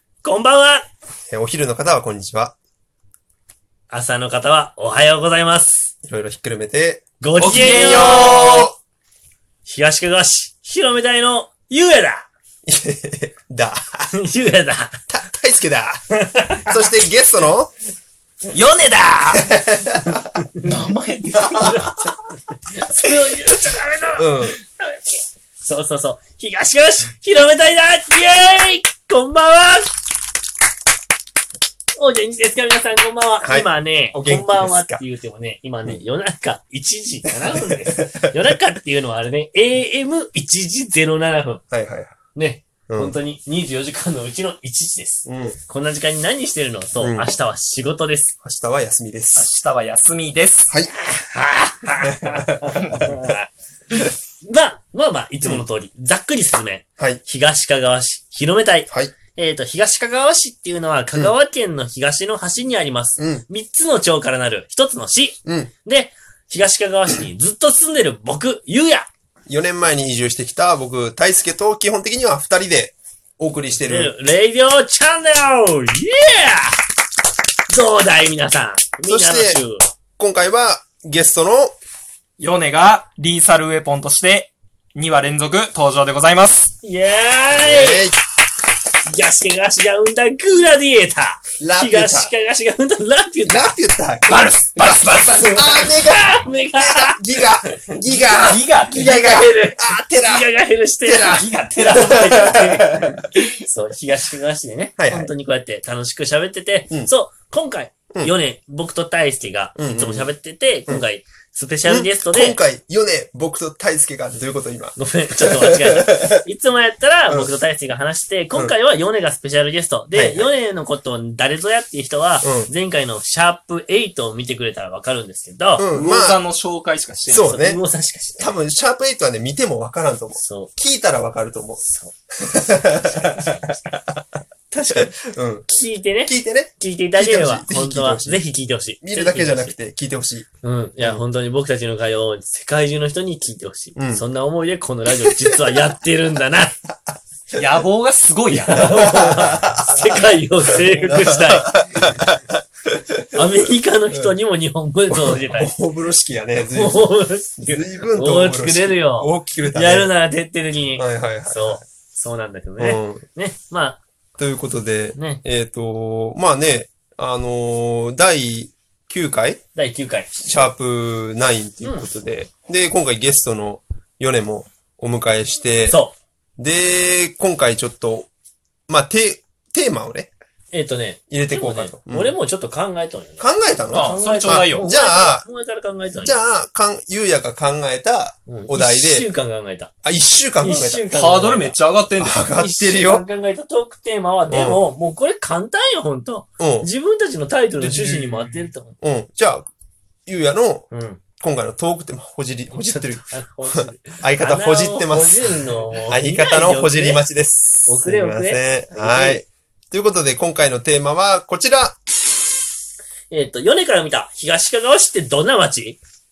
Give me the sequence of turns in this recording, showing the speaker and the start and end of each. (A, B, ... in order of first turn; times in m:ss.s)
0:00.2-0:00.8 A
0:01.3-0:02.6 B
0:03.9-0:05.9 A
0:06.0-0:08.7 B
0:07.2-0:08.6 A
0:07.4-0:08.7 C
0:09.6-0:12.2 A
0:12.6-0:14.1 B
0:14.1-0:15.0 A
0:15.1-0:16.0 B
0:16.2-0:16.7 A
0:16.6-0:17.7 B
0:18.5-0:18.9 A
0:18.8-0:19.4 C
0:19.3-0:20.4 B
0:20.6-0:22.1 C
0:21.3-0:21.8 B
0:21.6-0:29.9 A
0:24.2-0:24.6 B
0:32.0-0:41.6 A
0:33.4-0:35.0 B
0:37.2-0:38.5 B
0:41.7-0:42.2 B
0:42.3-0:48.3 A
0:42.9-0:43.2 B
0:45.2-0:45.6 B
0:47.0-0:47.3 B
0:48.4-0:49.5 B
0:49.3-0:50.7 C
0:51.0-1:09.1 A
0:52.0-0:53.2 B
0:58.9-0:59.1 B
1:03.2-1:03.4 B
1:05.4-1:05.7 B
1:09.5-1:14.1 B
1:13.9-1:16.8 A
1:17.7-1:19.8 A
1:19.1-1:19.6 B
1:20.2-1:21.7 B
1:22.4-1:26.7 C
1:26.8-1:28.1 A
1:27.6-1:28.2 B
1:29.0-1:33.7 A
1:31.6-1:32.3 B
1:33.5-1:40.5 B
1:34.3-1:35.9 C
1:35.6-1:37.9 A
1:38.4-1:39.2 C
1:38.9-1:52.6 A
1:41.0-1:43.3 B
1:41.2-1:42.4 C
1:45.0-1:45.3 B
1:49.8-1:50.3 B
1:51.8-1:56.4 B
1:55.0-2:05.9 A
1:57.3-1:57.5 B
2:00.1-2:00.5 B
2:02.4-2:02.7 B
2:05.8-2:06.4 B
2:05.9-2:07.5 C
2:07.3-2:07.8 B
2:07.4-2:08.5 A
2:08.4-2:11.8 B
2:10.3-2:10.7 A
2:11.8-2:12.1 A
2:12.4-2:14.2 B
2:13.1-2:13.6 A
2:14.7-2:15.1 A
2:14.9-2:15.6 B
2:15.6-2:19.8 A
2:16.2-2:18.4 B
2:19.0-2:20.5 B
2:20.6-2:26.8 A
2:24.0-2:24.2 B
2:27.5-2:28.9 C
2:28.6-2:32.0 A
2:28.6-2:33.4 B
2:33.3-2:35.7 A
2:34.1-2:34.3 B
2:35.1-2:40.1 B
2:36.6-2:44.0 A
2:41.0-2:41.8 B
2:42.8-2:43.2 B
2:44.4-2:49.6 B
2:45.1-2:45.4 A
2:49.7-2:50.7 A
2:50.4-2:56.0 B
2:51.8-2:52.1 A
2:55.9-2:56.1 A
2:56.6-2:58.3 B
2:58.9-3:00.3 B
3:00.7-3:06.4 A
3:01.3-3:02.4 B
3:03.4-3:05.4 B
3:03.9-3:04.9 C
3:06.2-3:09.3 B
3:08.5-3:09.9 A
3:10.0-3:11.1 B
3:10.6-3:11.8 A
3:11.1-3:12.4 C
3:12.2-3:13.2 B
3:12.5-3:19.0 A
3:14.5-3:14.8 B
3:16.6-3:16.9 B
3:17.8-3:19.7 B
3:20.2-3:32.0 B
3:20.9-3:21.2 A
3:22.7-3:27.2 A
3:27.8-3:29.4 A
3:33.3-3:36.0 A